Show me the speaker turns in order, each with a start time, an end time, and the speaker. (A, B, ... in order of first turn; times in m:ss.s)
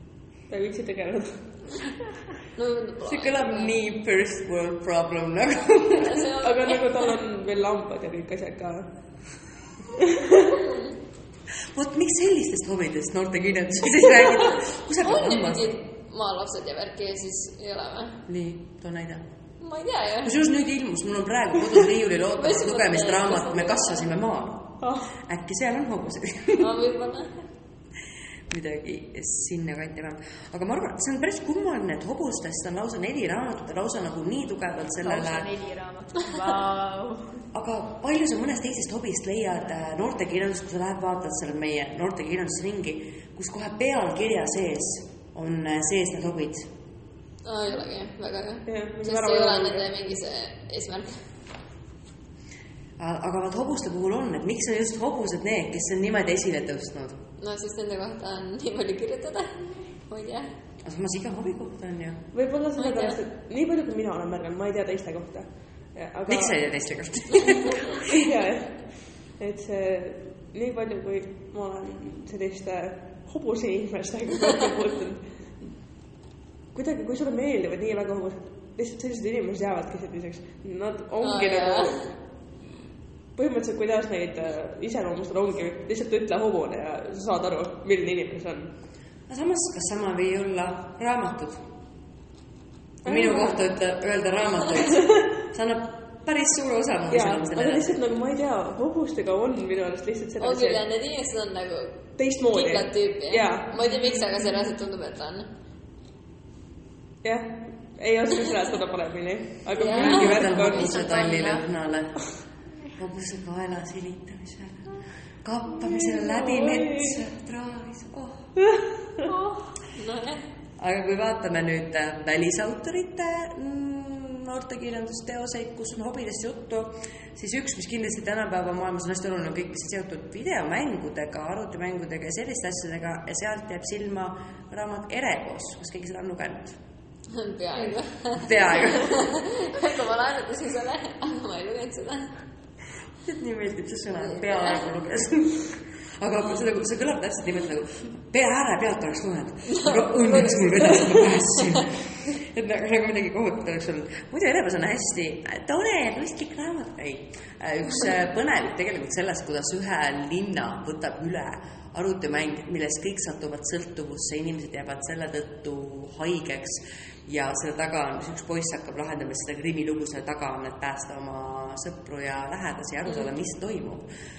0:00.5-0:01.4 A
0:02.6-0:03.7 B
0:03.0-0:06.3 C
0:06.0-0:07.1 B
0:06.4-0:08.9 A
0:10.0-0:10.6 A
0:11.7-0:15.8 C
0:15.0-0:18.2 B
0:18.3-0:19.2 C
0:19.6-0:20.3 B
0:20.2-0:26.7 C
0:22.4-0:24.1 B
0:24.8-0:25.1 A
0:26.6-0:27.3 B
0:28.5-0:35.5 C
0:35.0-0:37.4 D
0:37.5-0:46.7 C
0:47.4-0:51.2 B
0:48.7-0:49.9 A
0:53.0-0:57.2 C
0:57.4-1:00.5 B
1:00.8-1:02.2 C
1:02.3-1:06.6 A
1:02.8-1:03.2 B
1:06.3-1:08.2 C
1:08.1-1:08.8 A
1:09.4-1:15.2 A
1:16.7-1:22.1 A
1:21.2-1:22.0 B
1:23.4-1:28.7 A
1:29.3-1:31.6 C
1:33.0-1:33.6 A
1:33.0-1:38.0 C
1:37.1-1:40.8 A
1:40.4-1:45.5 B
1:42.2-1:43.9 A
1:47.2-1:51.0 A
1:49.8-1:51.6 B
1:49.9-1:52.2 C
1:53.0-1:54.9 C
1:55.4-1:58.5 C
1:55.8-1:57.2 A
1:58.6-1:59.3 A
1:59.3-1:59.7 D
1:59.9-2:00.4 B
2:00.8-2:16.8 C
2:17.3-2:22.3 B
2:18.3-2:19.3 C
2:23.2-2:54.1 C
2:24.3-2:24.8 B
2:29.7-2:31.5 B